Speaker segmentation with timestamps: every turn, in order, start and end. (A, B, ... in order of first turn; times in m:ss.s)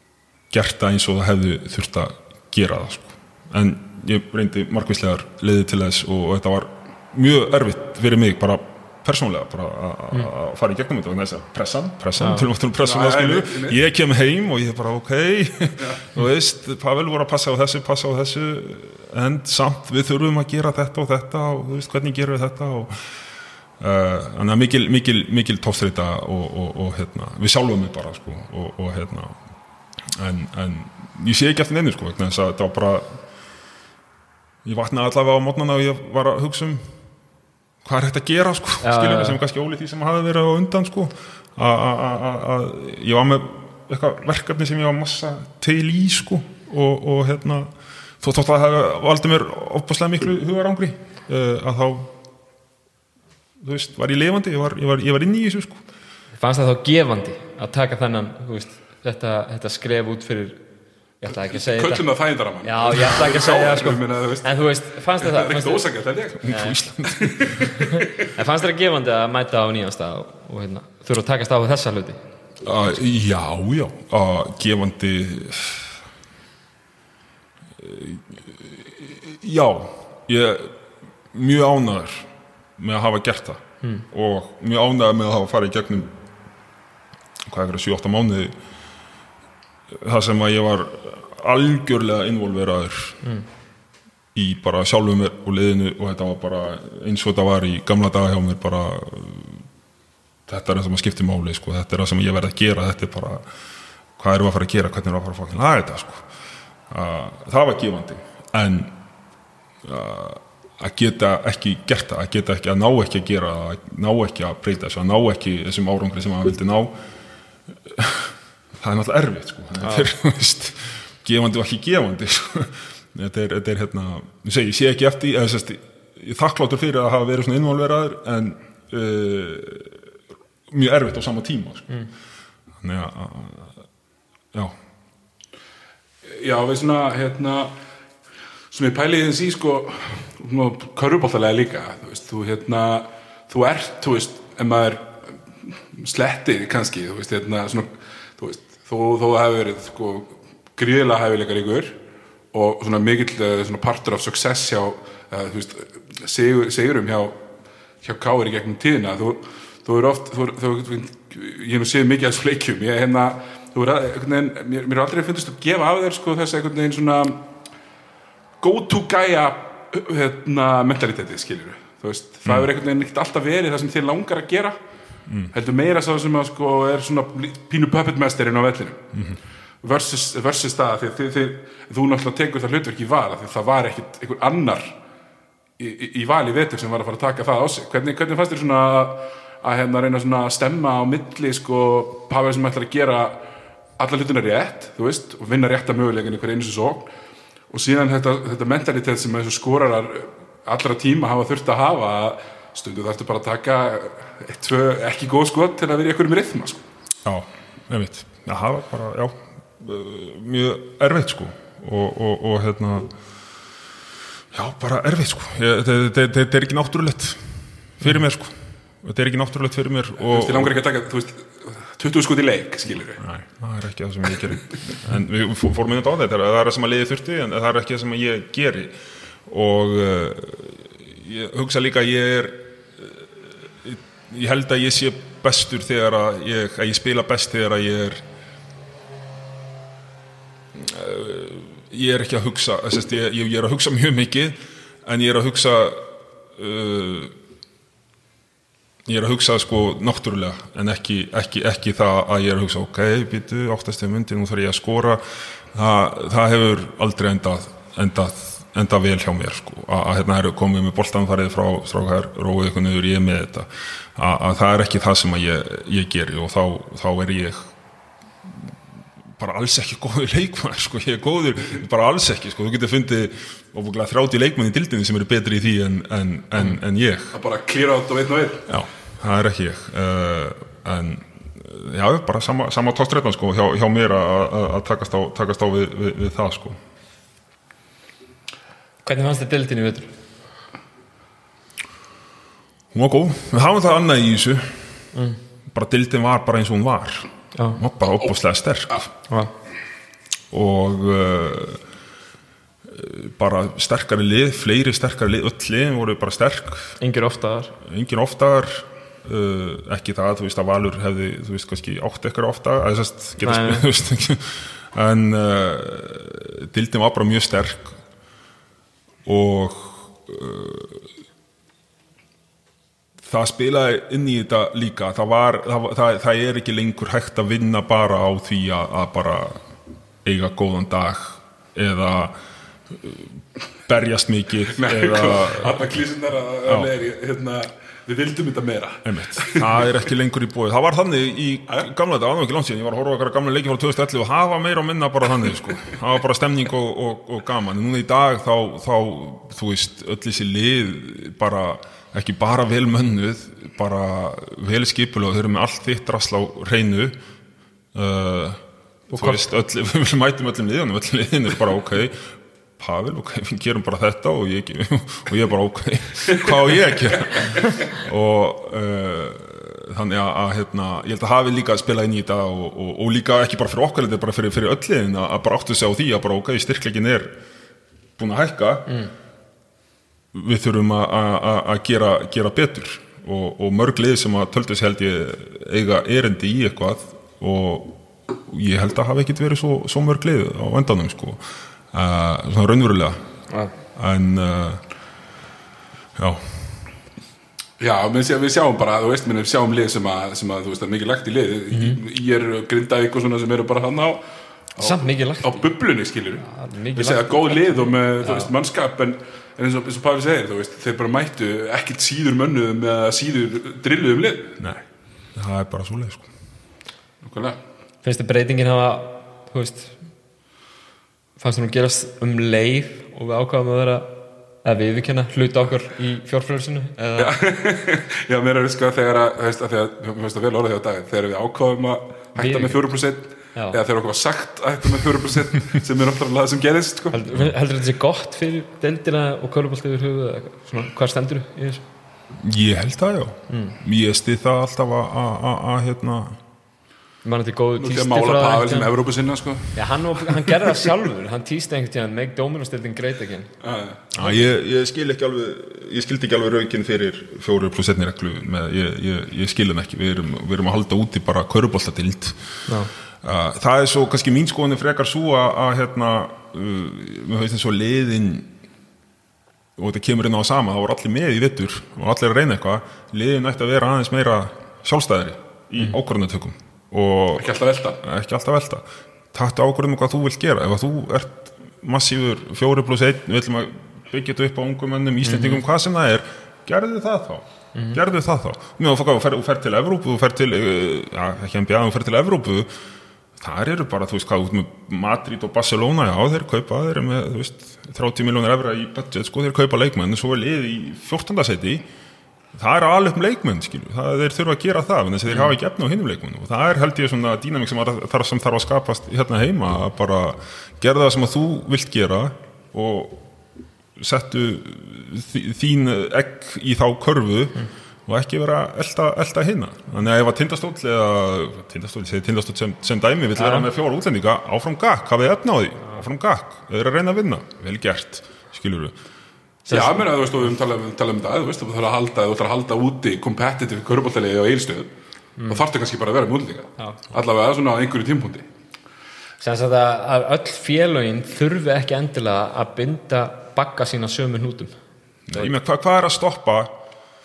0:00.5-0:23.0 A
0:12.2-0:12.4 B
0:12.8-0:13.8 C
0:23.8-0:29.4 A
0:30.1-0:33.2 A
0:34.6-0:36.9 A
0:37.8-0:52.1 A
0:38.8-0:39.4 B
0:53.6-0:55.8 A
0:56.4-1:00.6 B
1:01.2-1:02.1 B
1:01.3-1:06.5 C
1:02.6-1:05.8 B
1:06.4-1:07.6 A
1:06.4-1:06.8 B
1:07.0-1:07.9 C
1:07.6-1:12.2 B
1:12.6-1:15.9 A
1:17.8-1:20.8 A
1:21.3-1:26.1 A
1:27.4-1:28.5 A
1:29.9-1:33.2 A
1:34.3-1:39.6 A
1:40.5-1:43.4 A
1:44.2-1:46.2 A
1:46.9-1:49.0 A
1:49.8-1:56.9 A
1:57.8-2:10.0 A
1:59.8-2:00.1 B
2:10.7-2:11.9 A
2:12.8-2:13.8 A
2:16.3-2:17.7 C
2:18.7-2:25.1 C
2:25.6-2:32.0 C
2:32.5-2:37.4 C
2:38.0-2:47.4 C
2:48.6-2:54.8 C
2:55.3-2:55.5 A
2:55.5-2:59.0 C
2:59.1-2:59.4 A
2:59.8-3:04.9 C
3:05.8-3:13.4 C
3:14.0-3:17.1 C
3:17.7-3:26.8 C
3:27.2-3:33.1 A
3:34.5-3:40.8 A
3:40.2-3:43.2 C
3:43.2-3:48.9 A
3:49.4-3:58.2 A
4:00.7-4:07.3 A
4:09.0-4:27.6 A
4:28.4-4:28.7 A
4:29.4-4:37.3 A
4:37.3-4:38.6 C
4:38.7-4:46.8 A
4:49.0-4:50.1 B
4:52.9-4:54.9 A
4:55.1-4:55.4 B
4:55.7-4:59.1 A
4:57.5-4:57.8 B
5:00.5-5:01.8 A
5:02.8-5:07.0 A
5:07.0-5:07.7 B
5:07.8-5:18.0 A
5:13.4-5:13.9 B
5:19.2-5:21.1 A
5:23.2-5:29.6 A
5:30.2-5:32.4 A
5:32.9-5:35.8 A
5:34.7-5:39.9 C
5:39.0-5:57.2 A
5:57.9-6:17.3 A
5:59.2-5:59.4 B
6:18.2-6:18.9 A
6:18.9-6:19.1 B
6:20.3-6:31.4 A
6:31.9-6:33.2 A
6:33.9-6:34.8 A
6:36.2-6:36.8 A
6:37.8-6:44.2 C
6:41.7-6:42.0 B
6:44.8-6:54.5 C
6:44.8-6:45.6 B
6:46.4-6:48.5 B
6:54.6-6:54.8 A
6:55.3-6:56.3 A
6:57.2-6:57.6 C
6:58.0-7:00.0 B
7:01.4-7:04.1 B
7:04.6-7:07.4 B
7:07.2-7:17.2 C
7:12.4-7:12.8 B
7:13.5-7:13.8 B
7:17.1-7:21.8 B
7:22.4-7:26.4 A
7:23.5-7:23.8 B
7:27.2-7:28.9 B
7:27.8-7:30.7 C
7:29.7-7:33.5 B
7:33.6-7:34.0 C
7:34.1-7:42.5 A
7:43.2-7:48.5 A
7:49.8-8:12.7 A
7:57.4-7:58.0 C
8:05.2-8:05.6 B
8:07.7-8:08.0 B
8:13.4-8:21.8 A
8:22.5-8:33.2 A
8:25.3-8:25.5 B
8:34.0-8:48.9 A
8:43.4-8:43.7 B
8:49.7-8:50.0 B
8:49.7-8:54.9 C
8:55.4-8:55.6 B
8:55.5-8:58.4 C
8:59.4-9:04.8 B
9:05.3-9:06.7 A